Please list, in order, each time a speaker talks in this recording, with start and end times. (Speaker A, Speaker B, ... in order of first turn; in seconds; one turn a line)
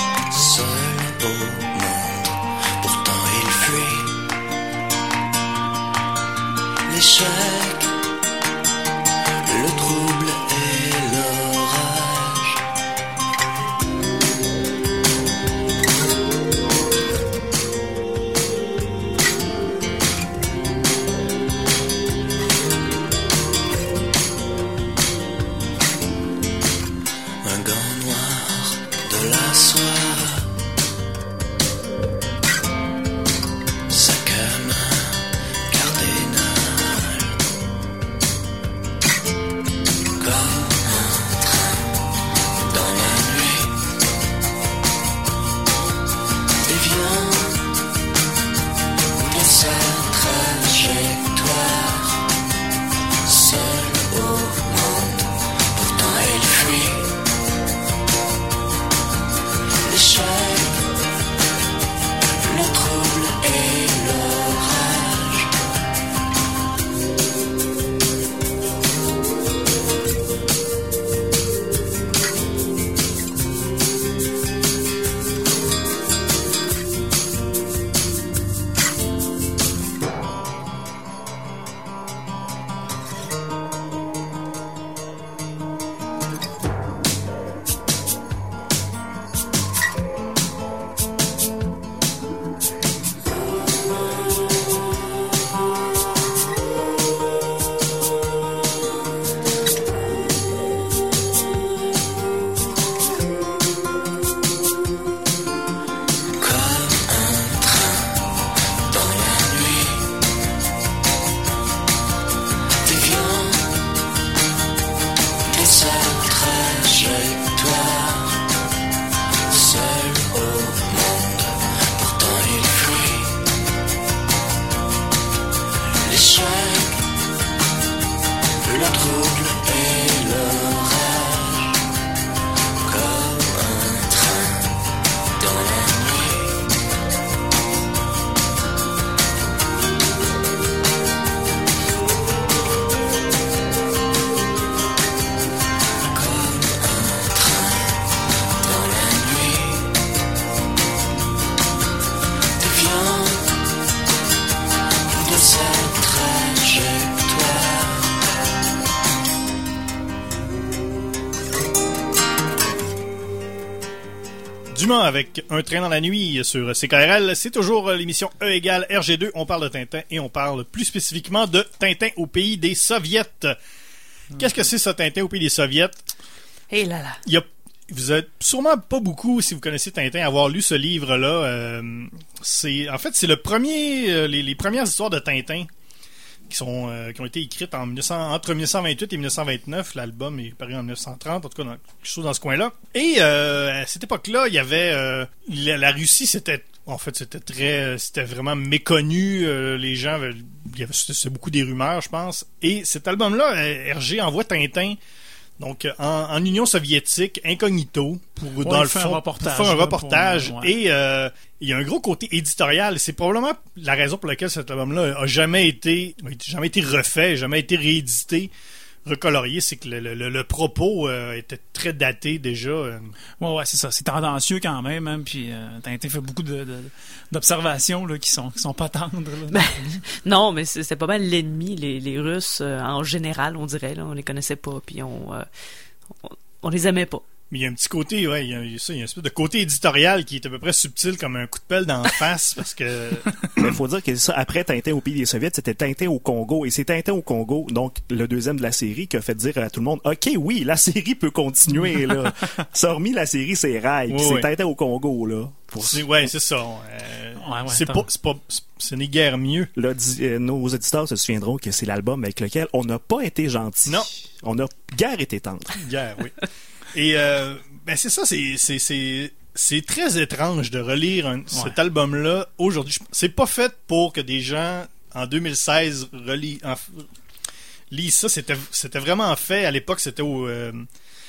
Speaker A: 0.3-4.2
Speaker A: 6.9-8.0
Speaker A: 9.4-12.6
Speaker A: 27.4-30.5
Speaker A: 33.9-37.3
Speaker A: 40.1-41.9
Speaker A: 42.5-43.8
Speaker A: 46.6-47.7
Speaker A: 49.2-52.2
Speaker A: 53.2-57.2
Speaker A: 59.8-61.0
Speaker A: 62.4-65.5
Speaker A: 106.4-108.2
Speaker A: 108.8-110.1
Speaker A: 112.8-113.8
Speaker A: 115.5-118.4
Speaker A: 119.5-123.4
Speaker A: 126.0-127.1
Speaker A: 128.6-131.8
Speaker A: 132.8-134.8
Speaker A: 135.4-136.7
Speaker A: 146.0-148.0
Speaker A: 148.6-149.9
Speaker A: 152.6-153.6
Speaker A: 155.1-158.1
Speaker B: 164.7-173.6
Speaker B: 174.4-176.0
Speaker C: 176.7-177.2
Speaker B: 177.2-185.7
Speaker B: 186.5-205.0
Speaker B: 205.6-218.5
Speaker D: 208.6-210.7
Speaker B: 219.0-223.2
Speaker D: 223.4-230.0
Speaker C: 229.5-235.4
Speaker C: 236.2-237.2
Speaker B: 237.5-243.7
Speaker E: 243.6-256.1
Speaker B: 254.1-254.5
Speaker B: 255.8-259.7
Speaker D: 257.4-258.1
Speaker E: 259.7-265.8
Speaker B: 265.8-277.0
Speaker B: 277.9-280.9